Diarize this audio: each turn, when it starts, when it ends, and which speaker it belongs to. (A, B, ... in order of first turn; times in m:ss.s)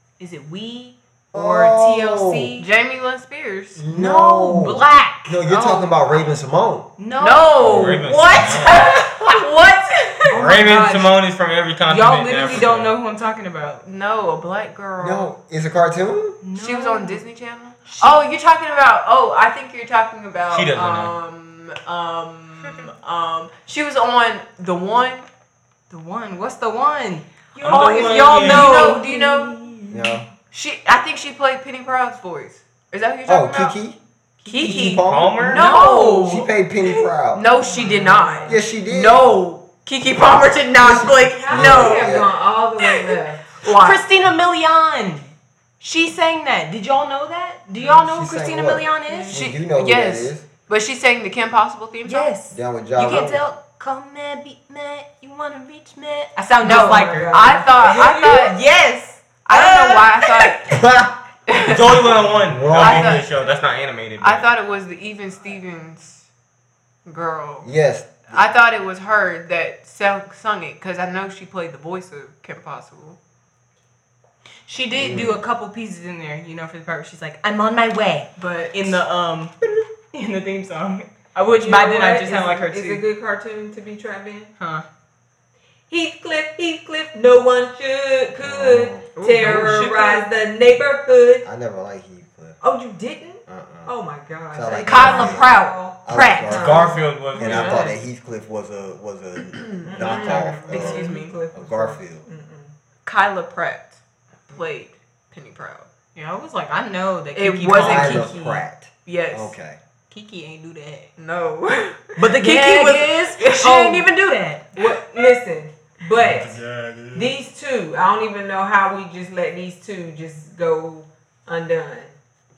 0:00.2-0:02.7 A
0:01.3-0:02.6 B
0:02.6-0:03.8 C
0:03.8-0:06.9 B
0:03.9-0:05.4 A
0:05.5-0:06.2 C
0:07.0-0:09.4 A
0:07.2-0:10.9 C
0:07.7-0:09.0 D
0:10.3-0:11.1 A
0:10.3-0:12.9 D
0:11.9-0:13.8 A
0:13.8-0:15.3 C
0:15.0-0:16.4 B
0:16.4-0:17.2 A
0:16.5-0:25.3 C
0:17.9-0:18.2 A
0:20.5-0:21.2 D
0:25.9-0:30.2 A
0:27.6-0:29.6 C
0:27.6-0:28.9 D
0:29.9-0:30.3 B
0:30.4-0:33.8 C
0:33.3-0:34.0 B
0:34.4-0:36.5 A
0:34.5-0:36.4 C
0:34.6-0:35.5 B
0:35.1-0:35.6 D
0:36.2-0:37.4 B
0:37.3-0:42.3 C
0:37.7-0:38.4 A
0:37.8-0:38.5 E
0:38.4-0:39.3 B
0:40.8-0:43.6 E
0:41.5-0:42.3 B
0:43.6-0:44.0 C
0:43.6-0:49.4 A
0:48.0-0:50.5 B
0:49.2-0:52.3 C
0:52.0-1:00.6 A
0:52.5-0:53.4 B
0:56.6-0:57.7 E
0:56.6-0:58.6 C
0:59.4-1:00.7 C
1:00.7-1:01.1 B
1:01.5-1:02.1 C
1:01.7-1:04.5 D
1:02.4-1:03.2 B
1:02.8-1:03.3 C
1:04.2-1:06.3 C
1:07.1-1:07.7 C
1:07.6-1:08.5 B
1:08.2-1:13.2 C
1:14.7-1:19.6 A
1:15.0-1:15.4 B
1:18.4-1:19.0 C
1:20.1-1:23.0 A
1:21.6-1:24.5 E
1:24.6-1:24.9 A
1:25.9-1:31.5 E
1:28.4-1:29.6 B
1:29.2-1:30.3 A
1:31.4-1:32.6 B
1:32.6-1:37.0 E
1:33.5-1:33.9 B
1:34.5-1:35.5 B
1:34.7-1:36.9 C
1:36.0-1:42.2 B
1:36.5-1:37.8 D
1:37.3-1:38.0 A
1:39.6-1:41.5 C
1:39.8-1:42.7 E
1:43.0-1:44.0 C
1:44.5-1:45.9 C
1:46.2-1:48.4 A
1:47.4-1:49.5 C
1:47.8-1:49.8 B
1:50.1-1:51.1 A
1:51.2-1:54.1 C
1:52.2-1:55.0 A
1:54.8-1:56.6 E
1:56.2-1:57.3 D
1:57.1-2:02.2 E